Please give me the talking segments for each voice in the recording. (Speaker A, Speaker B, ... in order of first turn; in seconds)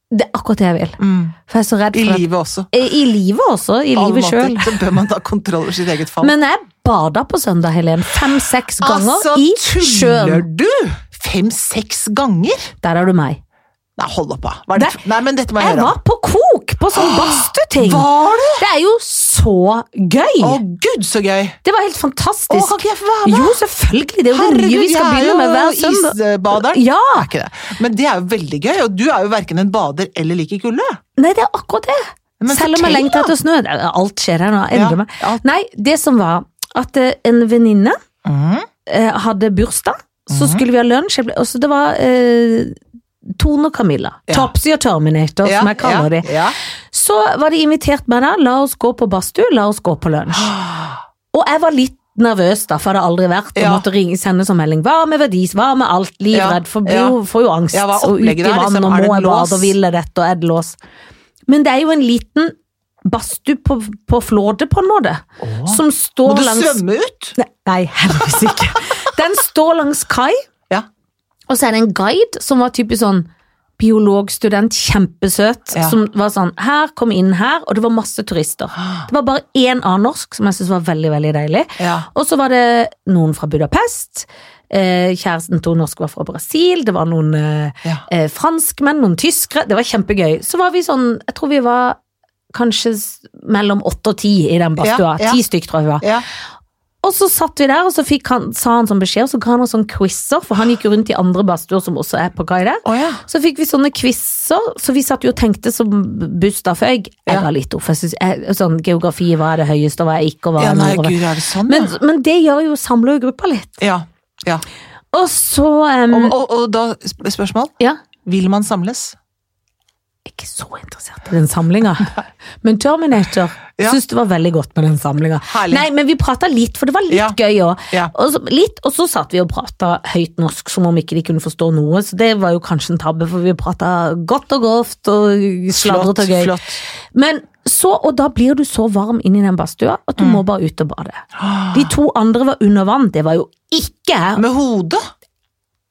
Speaker A: 0.1-4.8, 6.2-10.5, 12.8-13.4, 15.6-20.6, 21.6-27.3, 31.2-38.0, 38.9-42.8, 43.4-46.3, 46.9-50.5, 51.3-60.8, 61.5-62.5, 63.0-66.8, 67.4-70.4, 71.5-92.0, 92.5-96.1, 97.0-113.8, 115.1-116.3, 120.3-136.5, 137.1-144.4
Speaker B: 1.0-1.4, 1.9-2.7, 4.0-6.3, 8.8-12.7, 14.0-15.9, 16.9-18.6, 20.4-21.6, 22.5-23.6, 24.3-31.0, 32.4-33.3, 34.7-35.4, 38.2-38.7, 40.3-40.6, 45.5-46.6, 50.3-51.0, 53.5-53.9, 56.3-57.2, 57.7-59.8, 65.4-67.4, 68.1-68.8, 75.7-76.0, 81.8-82.1, 94.8-95.4, 102.8-103.2, 110.6-111.9, 113.8-114.6, 116.1-117.7, 118.2-119.2, 125.5-125.9, 127.1-127.4, 135.7-136.8, 141.4-141.9, 144.4-145.0